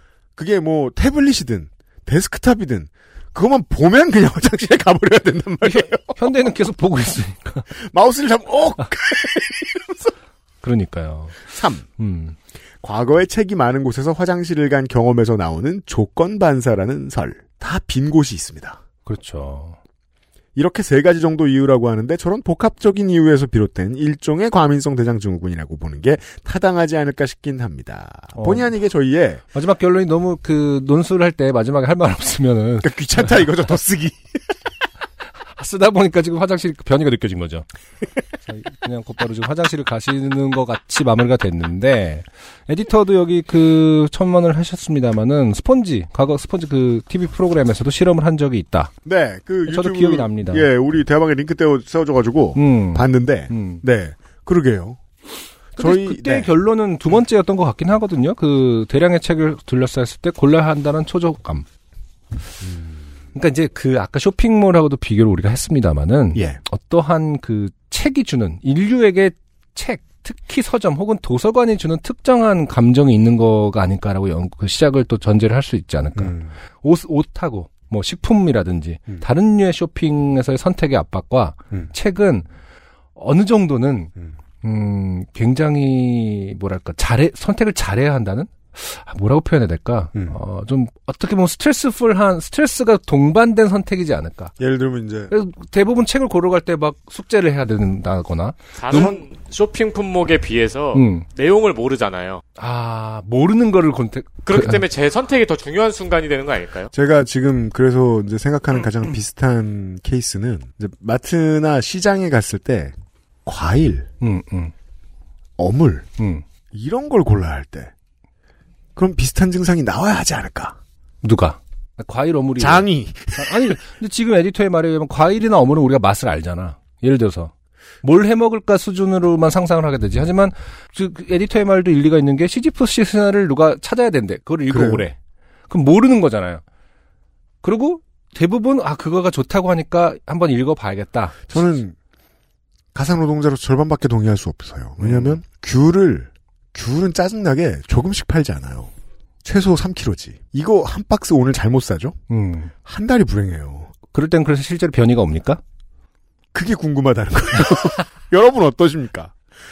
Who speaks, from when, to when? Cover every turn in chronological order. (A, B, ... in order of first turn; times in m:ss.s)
0:00.4-0:06.2 A
0:05.6-0:07.7 B
0:07.8-0:10.1 A
0:10.6-0:11.4 B
0:11.5-0:11.8 A
0:12.0-0:12.4 B
0:12.8-0:18.8 A
0:19.0-0:19.8 B
0:20.6-0:29.4 A
0:28.3-0:28.7 B
0:29.5-0:33.5 B
0:32.8-0:34.2 A
0:35.6-0:37.7 B
0:38.4-0:48.9 B
0:49.0-0:55.0 A
0:49.6-0:50.7 B
0:52.5-0:53.8 B
0:55.8-0:56.5 A
0:55.8-1:01.6 B
1:02.6-1:02.9 A
1:03.3-1:22.4 B
1:06.3-1:06.6 A
1:16.2-1:16.5 A
1:23.2-1:34.5 B
1:34.6-1:35.3 A
1:35.3-1:39.1 B
1:38.8-1:42.4 C
1:38.9-1:39.2 A
1:40.9-1:41.2 B
1:42.6-1:44.8 B
1:44.4-1:46.9 C
1:46.9-1:52.9 A
1:53.4-1:54.1 A
1:54.2-1:54.7 B
1:55.6-1:56.0 A
1:56.2-1:56.4 B
1:56.7-1:57.9 A
1:59.0-2:00.8 A
2:01.2-2:15.2 B
2:02.6-2:03.7 A
2:14.7-2:15.0 A
2:15.7-2:16.6 B
2:17.6-2:21.8 B
2:21.5-2:21.9 A
2:22.9-2:28.9 A
2:25.0-2:25.4 B
2:29.4-2:32.2 A
2:32.3-2:32.7 B
2:32.8-2:33.9 A
2:34.1-2:35.6 B
2:36.5-2:39.3 A